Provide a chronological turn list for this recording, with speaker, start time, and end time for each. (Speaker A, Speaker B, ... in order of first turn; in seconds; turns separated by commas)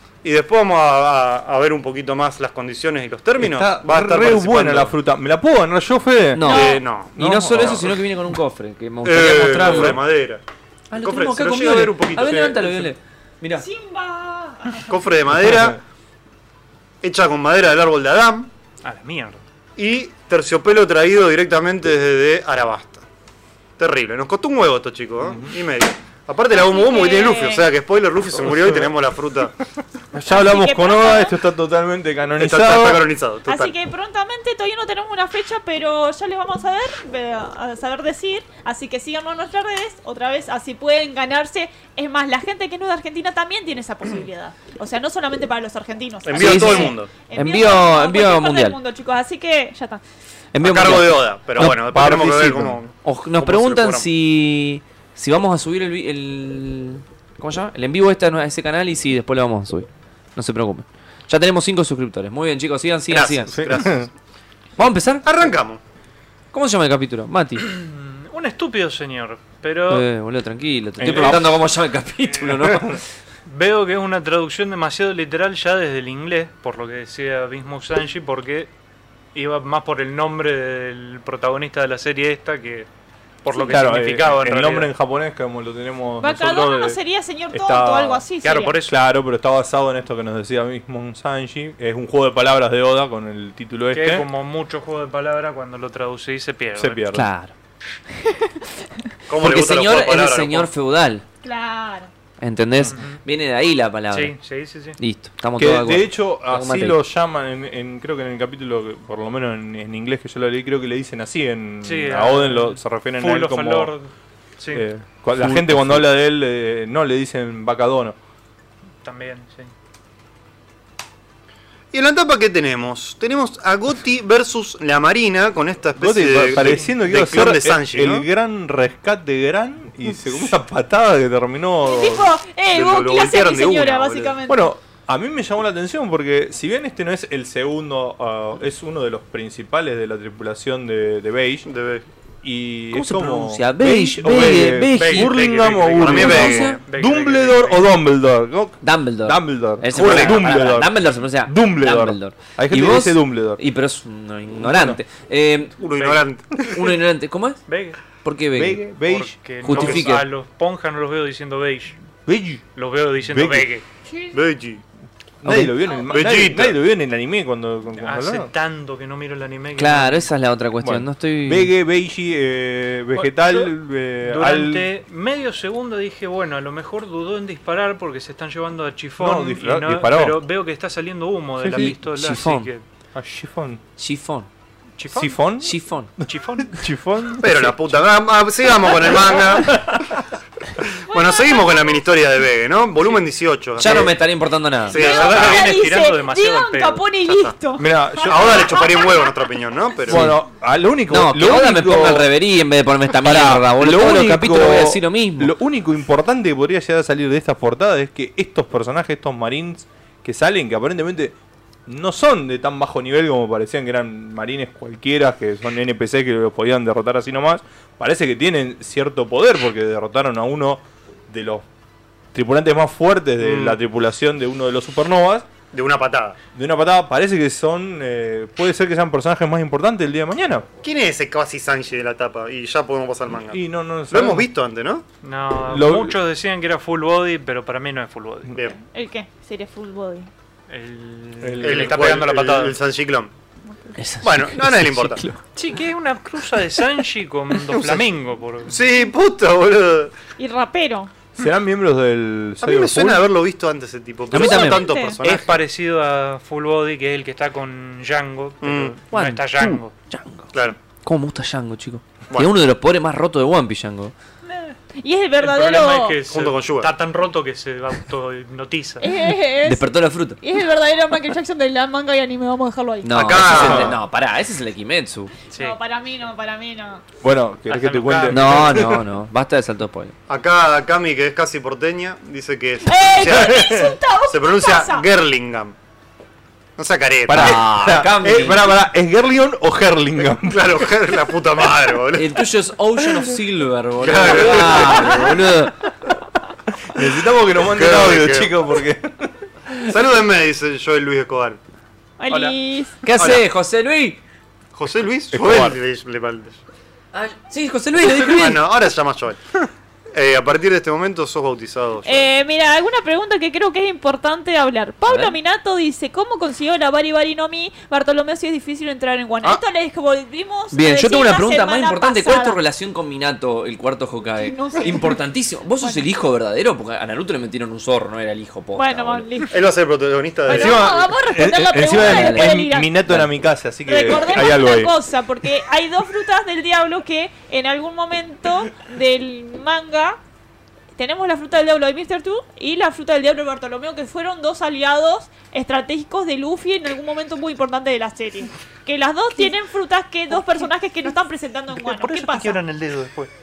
Speaker A: 0.2-4.9, Speaker B: 3.4-6.5, Speaker C: 6.3-10.0, Speaker D: 6.4-6.8, Speaker A: 6.5-7.8, Speaker B: 7.1-8.0, Speaker A: 9.0-10.4, Speaker B: 9.6-10.0, Speaker C: 10.9-13.7, Speaker A: 11.0-12.9, Speaker D: 13.6-14.9, Speaker A: 14.9-15.8, Speaker B: 15.5-15.8, Speaker A: 17.0-18.5, Speaker E: 18.8-19.4, Speaker A: 19.8-23.0, Speaker A: 23.8-29.6, Speaker B: 25.2-25.5, Speaker D: 26.5-27.7, Speaker B: 28.4-28.9, Speaker B: 30.1-33.1, Speaker D: 30.3-31.4, Speaker A: 32.4-33.7, Speaker D: 33.5-50.0, Speaker A: 46.2-47.1, Speaker C: 46.3-48.8, Speaker C: 50.5-51.7, Speaker A: 50.6-54.1, Speaker B: 51.6-52.8, Speaker C: 53.0-63.6, Speaker A: 63.1-64.1, Speaker B: 63.5-64.1, Speaker C: 64.8-65.2, Speaker A: 65.2-65.8, Speaker C: 66.5-67.7, Speaker E: 67.6-70.1, Speaker C: 69.9-73.0, Speaker B: 71.0-71.6, Speaker E: 71.1-71.4, Speaker B: 72.6-73.0, Speaker E: 73.5-78.7, Speaker E: 79.3-82.9, Speaker E: 83.4-84.9, Speaker B: 83.7-87.0, Speaker D: 86.2-88.8, Speaker B: 87.5-88.2, Speaker E: 88.4-89.0, Speaker B: 88.8-94.3, Speaker E: 93.9-97.1, Speaker B: 96.8-97.3, Speaker C: 97.1-97.5, Speaker A: 99.3-100.7, Speaker C: 99.3-101.2, Speaker D: 101.4-102.1, Speaker C: 102.4-104.3, Speaker E: 102.8-103.2, Speaker E: 104.1-105.0, Speaker C: 105.0-107.0, Speaker B: 105.5-113.9, Speaker E: 111.8-114.8, Speaker B: 114.7-118.2, Speaker C: 115.4-116.0, Speaker E: 119.0-119.7, Speaker A: 121.9-128.2, Speaker B: 126.0-132.3, Speaker E: 126.6-126.9, Speaker D: 131.8-134.7, Speaker A: 132.7-134.4, Speaker B: 134.5-141.7, Speaker A: 141.6-142.0, Speaker B: 142.4-153.6, Speaker C: 142.9-145.4, Speaker E: 144.9-147.9, Speaker A: 146.0-146.8, Speaker C: 146.0-146.8, Speaker C: 148.8-155.8, Speaker A: 149.9-150.5, Speaker B: 154.6-155.0, Speaker A: 155.8-156.9, Speaker E: 156.0-156.2, Speaker C: 156.6-157.6, Speaker E: 157.7-158.0, Speaker C: 158.1-158.8, Speaker B: 158.6-160.2, Speaker E: 159.0-162.0, Speaker C: 159.6-160.2, Speaker B: 162.2-162.6, Speaker E: 162.8-163.8, Speaker B: 163.2-163.7, Speaker D: 164.1-164.4, Speaker A: 164.3-164.8, Speaker B: 165.4-168.5, Speaker C: 165.4-165.7, Speaker D: 165.9-166.3, Speaker A: 166.1-166.8, Speaker E: 168.0-170.3, Speaker C: 169.8-171.7, Speaker B: 170.8-174.9, Speaker E: 173.1-182.8, Speaker B: 179.2-180.4, Speaker B: 181.6-182.0, Speaker C: 181.7-182.7, Speaker B: 183.1-183.8, Speaker C: 184.0-184.5, Speaker E: 185.0-185.3, Speaker B: 185.1-188.0, Speaker C: 185.6-186.1, Speaker E: 186.2-186.8, Speaker A: 187.4-190.2, Speaker B: 189.3-190.0, Speaker A: 190.8-194.2, Speaker D: 191.1-192.0, Speaker C: 193.8-195.0, Speaker A: 194.9-195.8, Speaker D: 194.9-199.5, Speaker E: 194.9-197.0, Speaker A: 197.3-197.5, Speaker B: 197.8-198.8, Speaker A: 198.2-200.3, Speaker B: 200.1-202.3, Speaker C: 200.1-200.4, Speaker C: 201.1-205.6, Speaker B: 203.1-211.3, Speaker B: 211.9-221.6, Speaker B: 222.3-225.5, Speaker A: 223.4-223.8, Speaker A: 225.7-226.4, Speaker B: 226.5-230.7, Speaker A: 230.8-235.1, Speaker B: 233.4-234.5, Speaker E: 235.2-238.6, Speaker B: 235.6-236.2, Speaker D: 238.8-240.3, Speaker E: 240.7-242.8, Speaker B: 241.4-242.1, Speaker A: 241.6-243.3, Speaker D: 243.7-244.0, Speaker C: 244.0-245.4, Speaker A: 244.2-245.2, Speaker E: 245.5-248.8, Speaker A: 247.7-248.0, Speaker A: 248.7-250.1, Speaker D: 250.4-251.1, Speaker B: 251.4-253.3, Speaker A: 252.6-255.6, Speaker C: 254.3-254.9, Speaker D: 254.3-255.2, Speaker E: 255.2-259.9, Speaker A: 258.6-259.0, Speaker C: 259.1-264.1, Speaker E: 264.5-264.7, Speaker D: 264.9-266.2, Speaker E: 265.4-269.1, Speaker A: 266.2-266.9, Speaker D: 269.0-273.3, Speaker C: 269.6-270.4, Speaker C: 273.0-275.3, Speaker A: 273.1-274.0, Speaker B: 273.5-274.0, Speaker D: 275.5-277.0, Speaker B: 277.2-279.0, Speaker E: 277.7-278.7, Speaker C: 278.3-280.1, Speaker A: 280.3-285.7, Speaker D: 282.8-285.1, Speaker B: 283.5-283.9, Speaker A: 286.8-287.7, Speaker B: 287.3-291.0, Speaker C: 287.3-288.7, Speaker A: 290.4-292.5, Speaker C: 292.1-295.8, Speaker A: 294.0-295.4, Speaker B: 294.3-295.0, Speaker B: 296.8-299.3, Speaker A: 297.6-298.5, Speaker A: 299.8-301.6, Speaker D: 302.2-303.0, Speaker C: 303.0-304.2, Speaker A: 303.1-303.4, Speaker A: 304.7-306.6, Speaker B: 305.3-305.8, Speaker C: 307.1-308.6, Speaker A: 308.1-312.2, Speaker D: 312.0-322.6, Speaker C: 315.1-315.3, Speaker C: 320.7-329.3, Speaker D: 324.4-325.2, Speaker D: 328.8-329.6, Speaker A: 329.5-331.0, Speaker D: 330.4-332.9, Speaker B: 330.5-334.9, Speaker C: 331.9-333.3, Speaker D: 333.9-340.2, Speaker D: 340.9-352.6, Speaker E: 350.4-350.6, Speaker E: 351.7-353.3